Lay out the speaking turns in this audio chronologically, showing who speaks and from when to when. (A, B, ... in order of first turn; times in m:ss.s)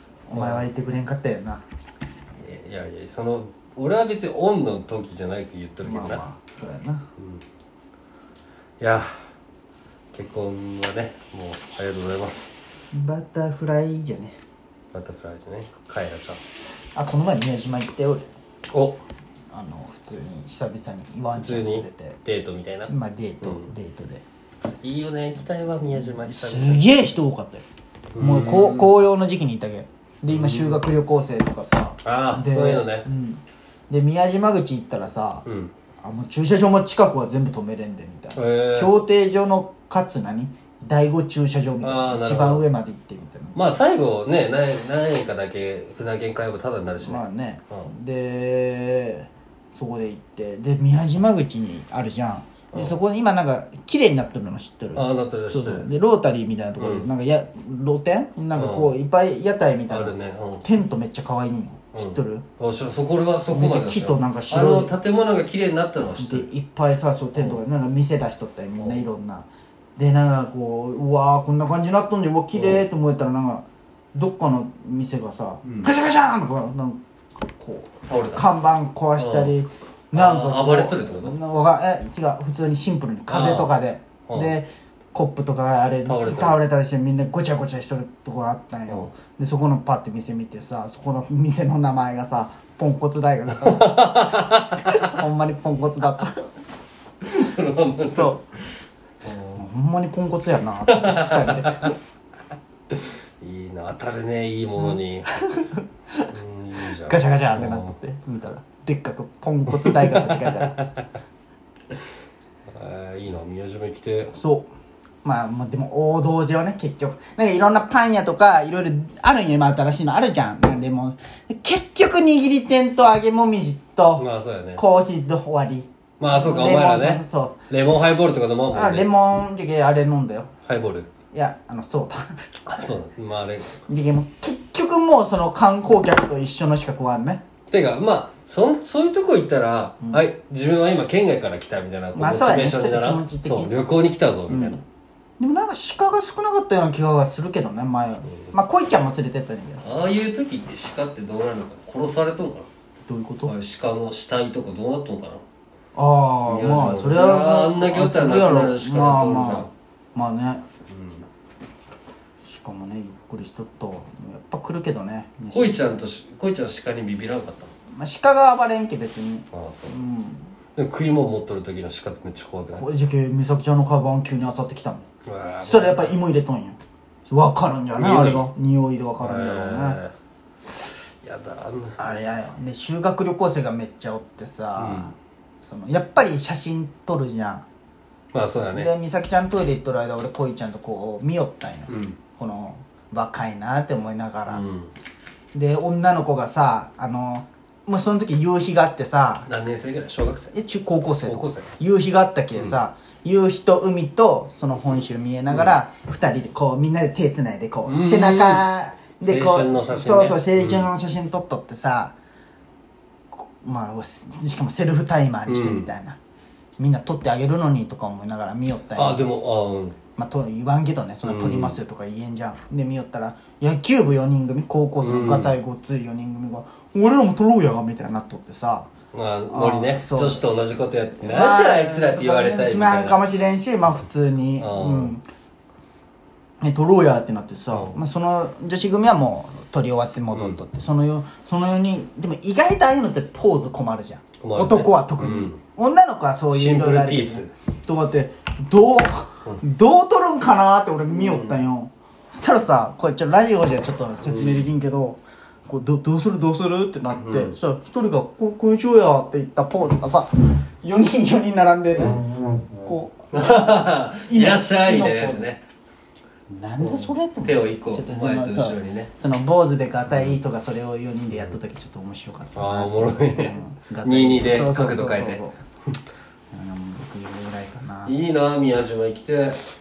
0:00.3-0:01.6 A
0:00.3-0:00.7 B
0:02.4-0:06.3 B
0:05.8-0:07.0 A
0:07.2-0:07.4 B
0:08.8-0:09.2 B
0:10.1-0:12.5 B
0:12.9-0:14.4 A
0:14.9-0:16.4 B
0:17.0-0:18.3 A
0:18.7-0:19.0 B
0:19.5-0:22.2 A
0:21.4-0:23.7 B
0:22.9-0:24.2 A
0:24.8-0:26.9 B
0:25.9-0:27.6 A
0:28.2-0:29.0 B
0:28.2-0:35.5 A
0:30.3-0:30.8 B
0:32.0-0:33.1 B
0:35.5-0:35.7 B
0:36.0-0:43.6 A
0:38.4-0:39.0 B
0:41.8-0:42.7 B
0:43.6-0:47.9 B
0:47.0-1:02.4 A
0:52.7-0:53.0 B
0:55.0-0:55.9 B
0:56.8-0:57.1 B
0:58.6-0:58.9 B
0:59.9-1:00.7 B
1:01.9-1:06.5 B
1:03.5-1:04.9 A
1:06.2-1:34.0 A
1:07.4-1:07.6 B
1:12.5-1:12.8 B
1:18.1-1:18.5 B
1:19.2-1:19.6 B
1:20.1-1:21.4 B
1:23.3-1:23.7 B
1:24.3-1:24.5 B
1:26.0-1:26.6 B
1:33.6-1:35.2 B
1:34.9-1:36.4 A
1:37.2-1:38.4 B
1:38.1-1:38.4 A
1:39.2-1:39.6 B
1:39.6-1:42.0 A
1:40.9-1:42.0 B
1:42.9-1:45.3 B
1:44.8-1:46.3 A
1:46.3-1:48.0 B
1:46.9-1:50.8 A
1:49.8-1:51.0 B
1:52.7-1:54.4 B
1:54.4-1:54.7 A
1:55.2-2:04.2 A
2:04.2-2:04.8 B
2:04.8-2:07.6 A
2:06.2-2:09.1 B
2:08.7-2:10.5 A
2:10.7-2:11.1 B
2:11.3-2:12.3 A
2:12.7-2:13.8 B
2:13.9-2:17.4 A
2:17.7-2:24.8 B
2:22.1-2:23.7 A
2:24.5-2:24.8 A
2:25.4-2:29.9 A
2:28.3-2:28.6 B
2:29.8-2:32.7 B
2:33.1-2:33.5 A
2:33.5-2:35.4 B
2:36.0-2:40.6 A
2:36.5-2:39.7 B
2:40.9-2:41.3 B
2:42.4-2:45.9 A
2:45.5-2:47.7 B
2:48.0-2:50.5 A
2:49.5-2:50.0 B
2:50.8-2:52.9 B
2:52.7-2:55.0 A
2:55.2-2:56.2 B
2:55.6-3:00.0 A
2:57.9-2:58.5 B
2:59.2-3:00.1 B
3:00.8-3:02.2 B
3:02.0-3:07.6 A
3:04.8-3:05.1 B
3:08.3-3:08.9 B
3:08.7-3:14.6 A
3:11.9-3:12.2 B
3:14.5-3:14.9 B
3:15.5-3:19.5 A
3:19.5-3:20.6 B
3:20.5-3:32.2 A
3:21.2-3:21.7 B
3:25.5-3:25.8 B
3:27.9-3:28.7 B
3:29.2-3:30.9 B
3:33.4-3:36.2 A
3:35.5-3:35.9 B
3:36.8-3:39.3 A
3:39.0-3:40.0 B
3:40.2-3:48.9 A
3:41.2-3:41.8 B
3:45.0-3:45.6 B
3:49.1-3:53.2 B
3:49.5-3:50.4 A
3:51.2-3:55.2 A
3:54.6-3:55.2 B
3:56.6-4:22.2 A
3:57.7-3:58.0 B
4:00.3-4:00.6 B
4:04.4-4:05.6 B
4:06.5-4:07.5 B
4:11.1-4:11.6 B
4:14.2-4:14.7 B
4:17.2-4:17.6 B
4:22.8-4:23.3 A
4:23.3-4:25.6 B
4:24.3-4:25.4 A
4:26.5-4:35.6 A
4:26.8-4:29.1 B
4:32.5-4:35.4 B
4:36.5-4:38.2 A
4:38.0-4:39.6 B